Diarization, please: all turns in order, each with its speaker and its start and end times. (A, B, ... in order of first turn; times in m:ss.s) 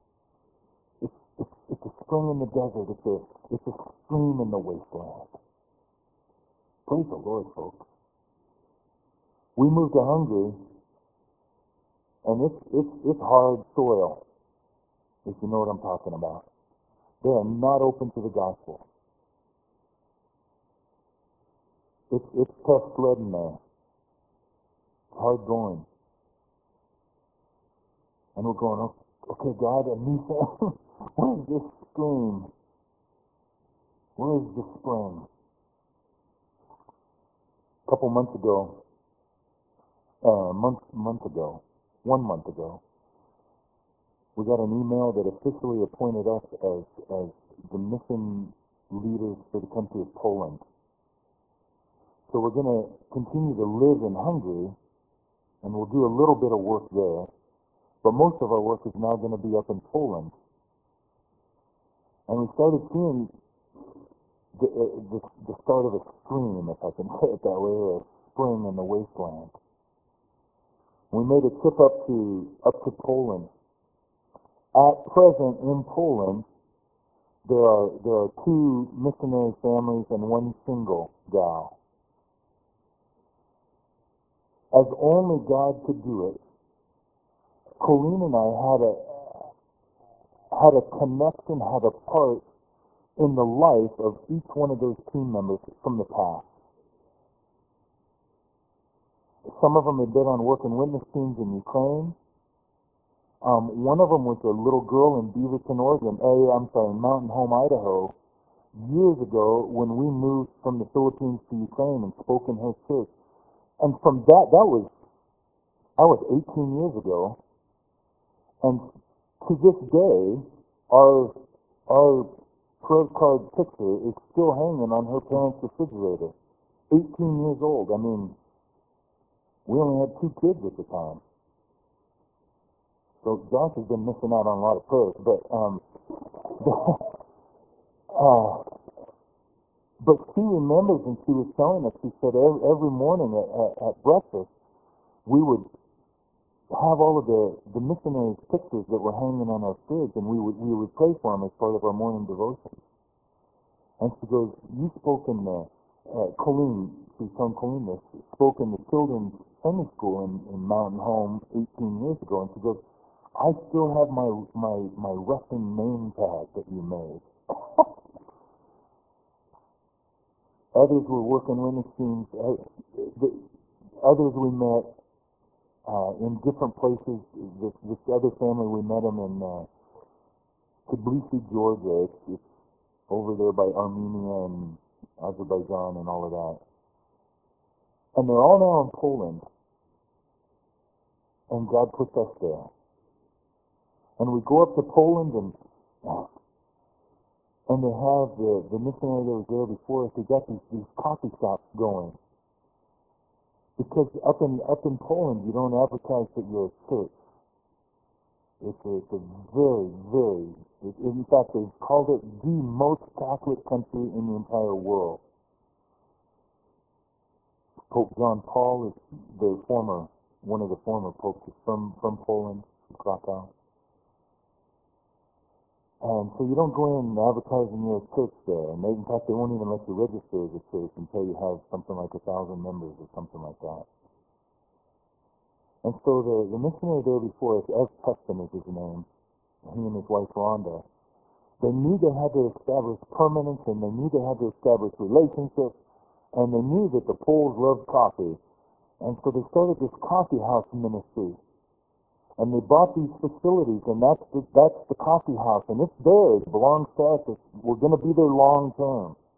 0:01.0-0:05.3 A
0:06.9-0:07.9 A
0:09.6-0:10.6 A
0:12.2-0:14.2 A
0:15.2-0:16.5 A
0:17.2-0:18.8 A
0:22.1-0:23.6 A
0:25.1-0:25.9 A
0:28.4-0:32.5 A
0:34.2-0:35.3 A
0:37.9-0:38.8 A
0:40.2-0:42.8 A
0:44.4-0:50.6 A
0:52.3-0:54.8 A
0:55.6-0:57.3 A
0:58.0-1:00.4 A
1:02.3-1:03.3 A
1:04.6-1:09.6 A
1:11.1-1:13.5 A
1:14.8-1:16.5 A
1:17.5-1:21.7 A
1:24.7-1:26.4 A
1:27.8-1:29.4 A
1:30.5-1:32.4 A
1:33.2-1:36.5 A
1:39.5-1:42.2 A
1:43.4-1:48.2 A
1:48.8-1:53.1 A
1:53.8-1:54.9 A
1:56.0-1:57.4 A
1:59.4-2:01.4 A
2:01.9-2:06.4 A
2:06.9-2:08.4 A
2:09.7-2:11.2 A
2:13.2-2:15.8 A
2:16.4-2:17.1 A
2:18.1-2:18.7 A
2:20.0-2:24.5 A
2:25.3-2:25.7 A
2:26.7-2:32.8 A
2:34.0-2:42.8 A
2:43.4-2:47.3 A
2:50.7-2:53.4 A
2:54.0-2:55.0 A
2:55.9-2:59.7 A
3:00.9-3:02.4 A
3:03.1-3:06.6 A
3:08.2-3:09.5 A
3:11.5-3:12.7 A
3:14.2-3:16.3 A
3:17.7-3:22.2 A
3:23.8-3:27.1 A
3:28.6-3:35.2 A
3:37.9-3:43.5 A
3:46.0-3:53.9 A
3:55.8-3:59.1 A
3:59.6-4:00.8 A
4:01.6-4:05.8 A
4:06.3-4:08.4 A
4:09.0-4:11.4 A
4:12.4-4:19.2 A